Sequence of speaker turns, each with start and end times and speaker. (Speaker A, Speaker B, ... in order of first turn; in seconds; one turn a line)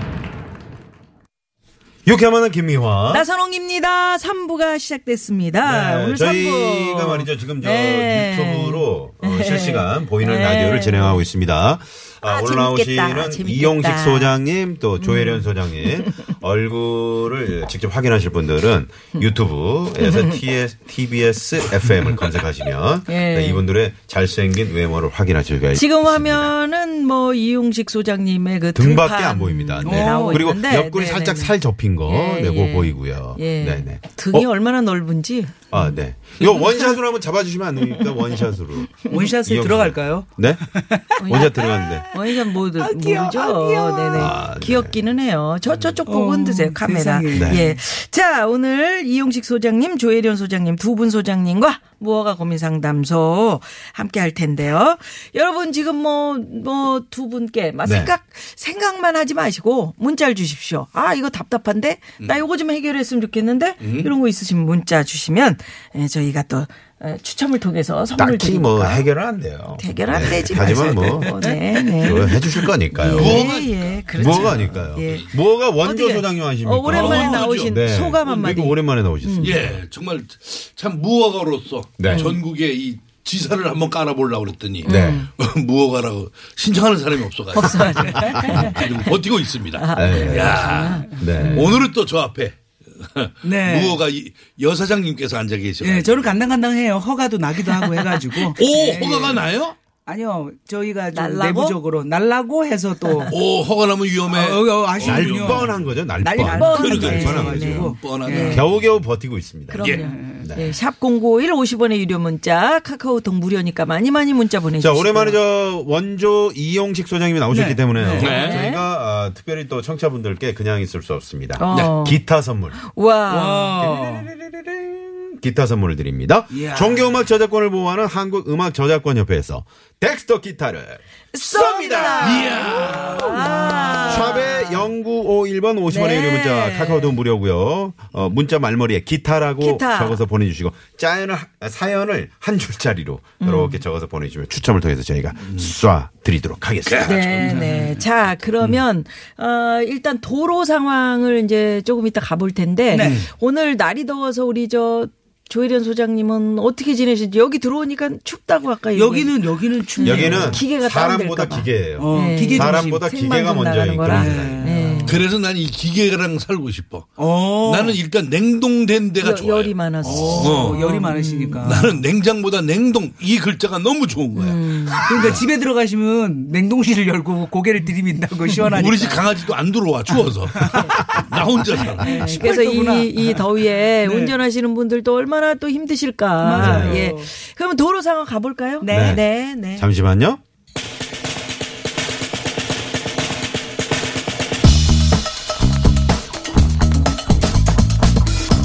Speaker A: 2.0-3.2
Speaker B: 3.1-11.3
Speaker A: 5.6-26.5
Speaker B: 12.2-14.4
Speaker B: 15.0-16.1
Speaker B: 20.0-20.4
Speaker B: 23.1-23.7
Speaker B: 25.7-37.0
Speaker A: 28.7-34.5
Speaker C: 29.8-30.5
Speaker A: 35.7-42.0
Speaker B: 37.8-38.4
Speaker B: 39.0-39.3
Speaker C: 39.1-44.4
Speaker B: 41.2-69.1
Speaker A: 44.1-45.0
Speaker C: 46.0-47.7
Speaker A: 47.3-47.6
Speaker A: 57.8-58.1
Speaker D: 63.8-64.1
Speaker A: 68.2-73.6
Speaker B: 69.8-79.6
Speaker C: 70.5-72.3
Speaker D: 73.0-75.2
Speaker A: 74.1-79.8
Speaker D: 76.9-77.8
Speaker D: 79.4-96.3
Speaker A: 82.0-82.4
Speaker B: 82.1-82.3
Speaker B: 84.8-85.3
Speaker A: 84.8-85.3
Speaker B: 87.5-89.2
Speaker A: 88.3-88.7
Speaker B: 89.7-91.7
Speaker A: 89.9-91.7
Speaker C: 93.4-94.0
Speaker C: 95.8-99.5
Speaker D: 98.4-99.8
Speaker C: 100.0-103.3
Speaker B: 101.1-101.8
Speaker D: 103.3-105.7
Speaker C: 104.3-108.6
Speaker A: 105.0-110.8
Speaker B: 106.4-108.7
Speaker D: 106.6-108.6
Speaker B: 109.7-115.4
Speaker D: 109.8-110.0
Speaker C: 110.0-110.5
Speaker A: 114.8-122.8
Speaker C: 117.5-118.3
Speaker B: 118.0-118.9
Speaker D: 118.2-118.6
Speaker B: 121.5-122.2
Speaker B: 122.8-123.8
Speaker C: 123.3-124.3
Speaker A: 123.8-131.9
Speaker C: 126.5-127.1
Speaker B: 131.3-134.8
Speaker D: 131.6-134.2
Speaker C: 132.3-134.3
Speaker A: 134.0-147.5
Speaker B: 135.9-137.2
Speaker B: 139.6-140.2
Speaker B: 143.4-143.8
Speaker D: 145.4-145.7
Speaker D: 146.8-147.5
Speaker B: 147.0-165.2
Speaker C: 147.4-148.0
Speaker C: 152.9-153.2
Speaker D: 153.0-153.3
Speaker C: 158.9-160.6
Speaker A: 160.0-164.7
Speaker C: 162.0-163.0
Speaker C: 164.1-165.1
Speaker D: 165.0-170.9
Speaker C: 167.2-168.0
Speaker B: 169.2-171.9
Speaker C: 170.2-172.0
Speaker D: 171.6-175.4
Speaker B: 174.3-175.3
Speaker C: 175.1-179.2
Speaker D: 178.6-182.3
Speaker C: 180.6-181.2
Speaker C: 181.8-184.3
Speaker B: 182.0-189.9
Speaker C: 186.4-187.3
Speaker A: 186.5-187.1
Speaker C: 188.8-189.2
Speaker A: 188.9-190.4